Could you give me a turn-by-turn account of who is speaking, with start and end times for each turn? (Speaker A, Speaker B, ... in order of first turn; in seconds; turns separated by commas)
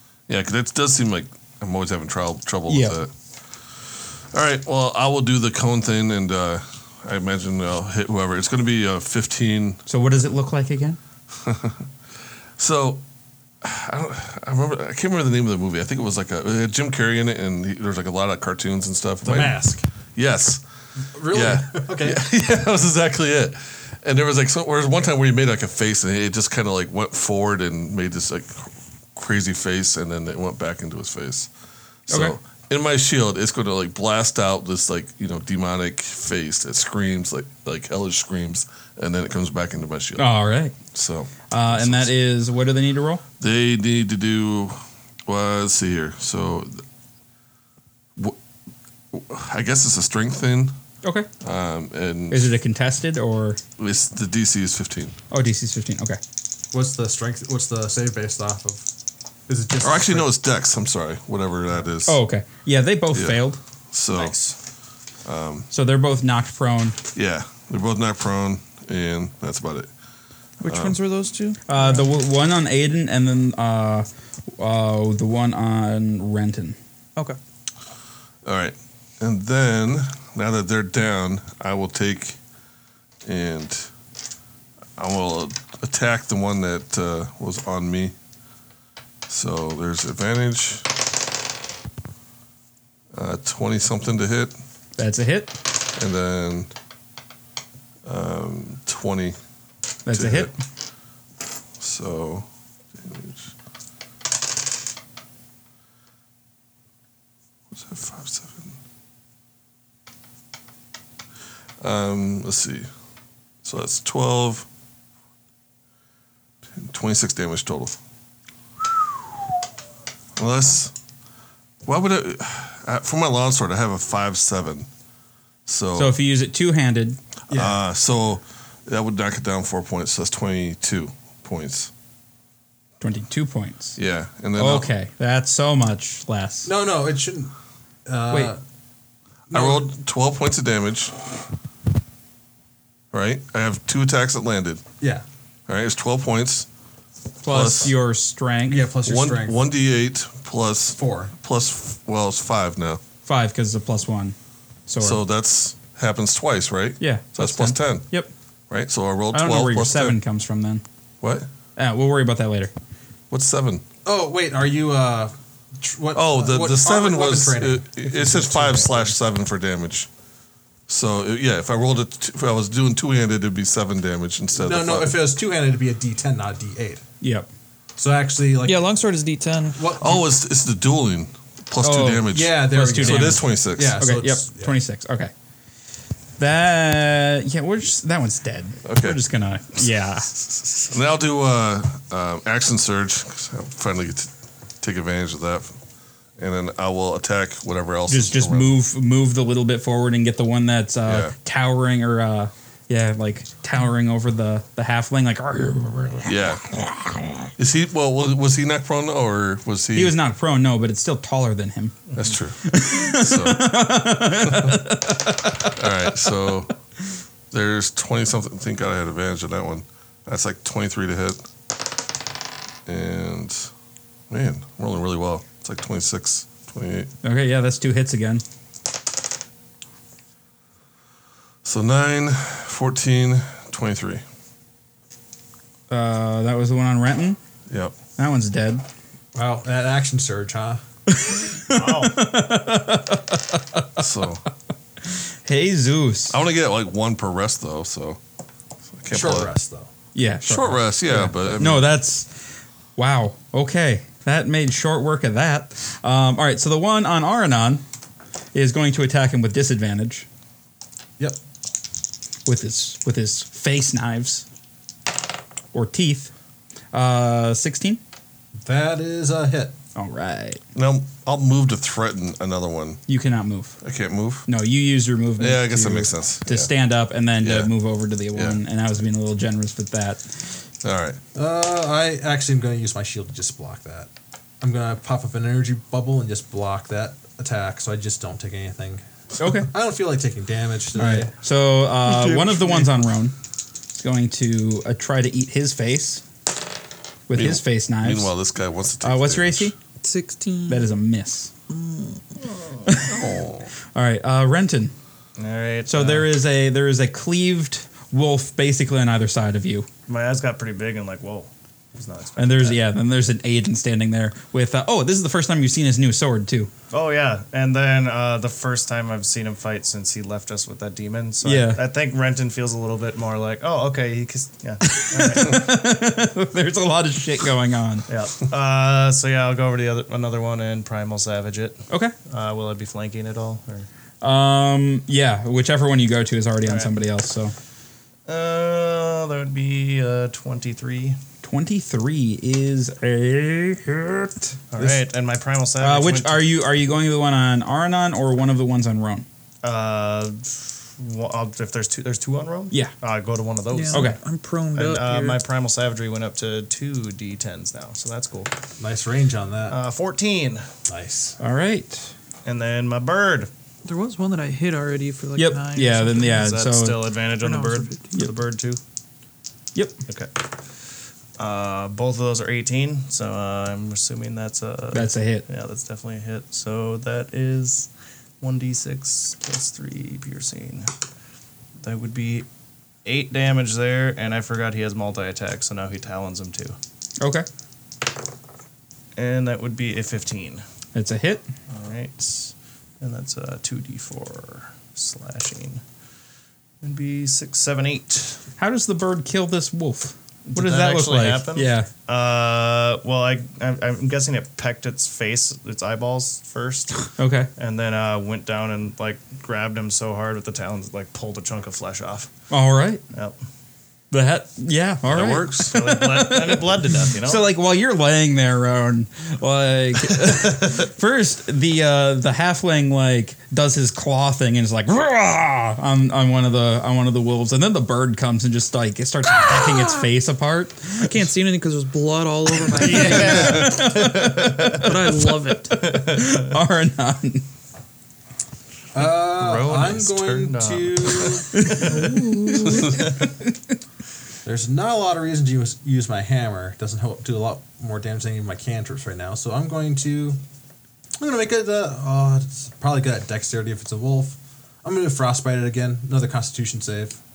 Speaker A: 0.3-3.1, Speaker B: 2.7-3.0, Speaker A: 3.9-9.8, Speaker B: 9.9-11.0, Speaker A: 11.4-11.8, Speaker A: 12.6-13.0, Speaker A: 13.6-19.6, Speaker C: 19.2-19.9, Speaker A: 20.1-20.6, Speaker C: 21.1-22.2, Speaker A: 21.3-31.5, Speaker A: 32.1-40.3, Speaker B: 32.1-32.4, Speaker B: 40.2-40.7, Speaker A: 40.9-42.1, Speaker B: 41.5-43.2, Speaker A: 43.4-46.8, Speaker A: 49.1-50.7, Speaker B: 51.0-51.3, Speaker A: 51.4-52.5, Speaker B: 52.3-53.6, Speaker A: 53.8-55.1, Speaker B: 55.3-56.2, Speaker C: 56.7-58.9, Speaker C: 59.5-60.3, Speaker A: 59.8-62.2, Speaker B: 62.0-63.6, Speaker A: 63.1-63.4, Speaker A: 63.9-64.4, Speaker D: 64.1-64.5, Speaker A: 65.2-65.7, Speaker B: 65.7-67.0, Speaker A: 67.1-69.9, Speaker E: 70.6-72.1, Speaker A: 70.6-71.0, Speaker B: 71.7-76.8, Speaker A: 78.4-82.4, Speaker A: 83.2-83.9, Speaker A: 85.0-88.1, Speaker A: 89.3-90.9, Speaker A: 93.1-94.5, Speaker B: 95.0-95.6, Speaker A: 95.9-96.7, Speaker A: 98.0-99.4, Speaker B: 100.0-100.5, Speaker A: 100.1-100.5, Speaker A: 101.8-103.5, Speaker A: 107.7-108.7, Speaker A: 111.8-112.9, Speaker A: 113.6-114.7, Speaker A: 116.8-118.0, Speaker A: 120.4-120.9, Speaker A: 121.9-124.9, Speaker A: 125.7-126.2, Speaker B: 125.9-127.2, Speaker C: 127.5-127.8, Speaker A: 127.5-131.9, Speaker B: 133.0-134.0, Speaker A: 134.0-134.9, Speaker B: 134.6-136.7, Speaker C: 136.7-137.5, Speaker C: 138.1-138.6, Speaker C: 139.5-139.9, Speaker A: 139.5-141.2, Speaker A: 143.1-144.8, Speaker A: 145.7-146.7, Speaker B: 147.4-148.8, Speaker A: 147.5-147.9, Speaker C: 148.7-149.7, Speaker A: 149.1-153.0, Speaker C: 151.0-151.3, Speaker B: 153.3-154.3, Speaker B: 154.9-155.2, Speaker A: 155.0-158.1, Speaker B: 157.0-158.3, Speaker A: 158.7-160.2, Speaker B: 159.3-160.8, Speaker A: 161.2-161.5, Speaker B: 161.8-162.7, Speaker A: 163.3-163.8, Speaker C: 164.1-169.1, Speaker A: 166.1-170.1, Speaker A: 170.9-175.3, Speaker C: 174.6-177.0, Speaker B: 177.2-177.5, Speaker C: 178.0-178.9, Speaker E: 178.6-180.0, Speaker C: 179.8-180.2, Speaker A: 180.0-184.0, Speaker B: 181.8-185.3, Speaker C: 182.3-184.8, Speaker B: 186.4-190.3, Speaker A: 188.8-189.2, Speaker A: 190.8-195.8, Speaker A: 196.4-198.7, Speaker B: 198.1-207.5, Speaker A: 201.1-201.3, Speaker A: 206.2-206.7, Speaker A: 207.6-210.1, Speaker B: 209.9-212.0, Speaker D: 212.1-212.4, Speaker A: 212.2-213.9, Speaker B: 212.6-216.2, Speaker A: 214.4-215.1, Speaker A: 215.6-216.7, Speaker A: 217.5-221.4, Speaker A: 222.9-223.7, Speaker A: 224.3-227.1, Speaker B: 227.2-228.4, Speaker A: 231.6-234.2, Speaker B: 235.9-237.4, Speaker A: 237.7-237.9, Speaker B: 238.2-238.8, Speaker C: 239.3-240.8, Speaker B: 241.1-244.0, Speaker D: 241.7-242.2, Speaker A: 244.0-244.4, Speaker B: 245.4-246.3, Speaker A: 246.3-248.2, Speaker A: 248.9-249.5, Speaker C: 249.1-249.9, Speaker B: 250.1-252.4, Speaker A: 250.4-251.9, Speaker B: 253.0-257.8, Speaker B: 258.5-260.3, Speaker B: 262.4-264.4, Speaker B: 265.7-266.3, Speaker B: 266.9-268.0, Speaker C: 268.6-269.7, Speaker B: 269.9-270.6, Speaker A: 270.7-273.0, Speaker B: 273.1-273.8, Speaker A: 273.8-274.5, Speaker B: 274.5-280.2, Speaker A: 275.4-276.7, Speaker A: 277.4-277.7, Speaker A: 280.8-281.2, Speaker C: 281.3-284.1, Speaker C: 284.6-289.0, Speaker B: 289.4-289.7, Speaker C: 289.6-291.3, Speaker B: 290.9-293.3, Speaker B: 293.9-296.2, Speaker B: 297.3-298.3, Speaker A: 297.3-299.7, Speaker B: 299.0-299.7, Speaker E: 300.0-300.9, Speaker B: 300.7-301.5, Speaker E: 301.7-302.4, Speaker B: 302.8-303.4, Speaker A: 303.0-303.7, Speaker B: 303.9-304.9, Speaker D: 305.4-306.3, Speaker B: 305.9-309.9, Speaker D: 310.1-312.8, Speaker B: 312.4-316.7, Speaker D: 316.9-325.7, Speaker B: 321.4-321.8, Speaker B: 324.8-328.1, Speaker D: 328.1-333.9, Speaker B: 334.2-337.5, Speaker D: 338.3-341.2, Speaker B: 341.4-345.0, Speaker D: 344.7-346.4, Speaker B: 345.8-349.3, Speaker D: 349.6-354.1, Speaker E: 353.7-355.4, Speaker B: 353.9-354.2, Speaker D: 354.7-358.5, Speaker C: 358.8-359.8, Speaker D: 359.7-360.7, Speaker C: 360.9-361.4, Speaker B: 361.4-362.1, Speaker D: 362.4-363.5, Speaker E: 363.8-366.5, Speaker B: 365.4-367.1, Speaker D: 366.3-368.8, Speaker E: 367.4-368.1, Speaker D: 370.1-370.3, Speaker D: 371.4-377.9, Speaker B: 374.9-375.4, Speaker D: 378.4-380.9, Speaker D: 381.8-382.4, Speaker D: 383.1-386.8, Speaker B: 387.2-387.4, Speaker D: 389.1-390.6, Speaker B: 390.9-391.4, Speaker D: 391.7-395.8, Speaker D: 396.8-398.4, Speaker B: 398.6-401.9, Speaker D: 400.5-412.3, Speaker B: 407.2-407.5, Speaker B: 412.5-413.0, Speaker B: 414.1-431.2, Speaker A: 415.1-415.9, Speaker D: 415.6-417.5, Speaker E: 431.0-433.9, Speaker D: 432.7-435.2, Speaker B: 432.8-434.9, Speaker E: 434.7-436.0, Speaker D: 435.8-436.6, Speaker B: 435.9-437.4, Speaker C: 438.9-441.6, Speaker D: 439.4-441.6, Speaker B: 441.5-443.1, Speaker E: 441.8-442.9, Speaker A: 442.6-443.0, Speaker C: 444.4-450.4, Speaker C: 451.2-457.2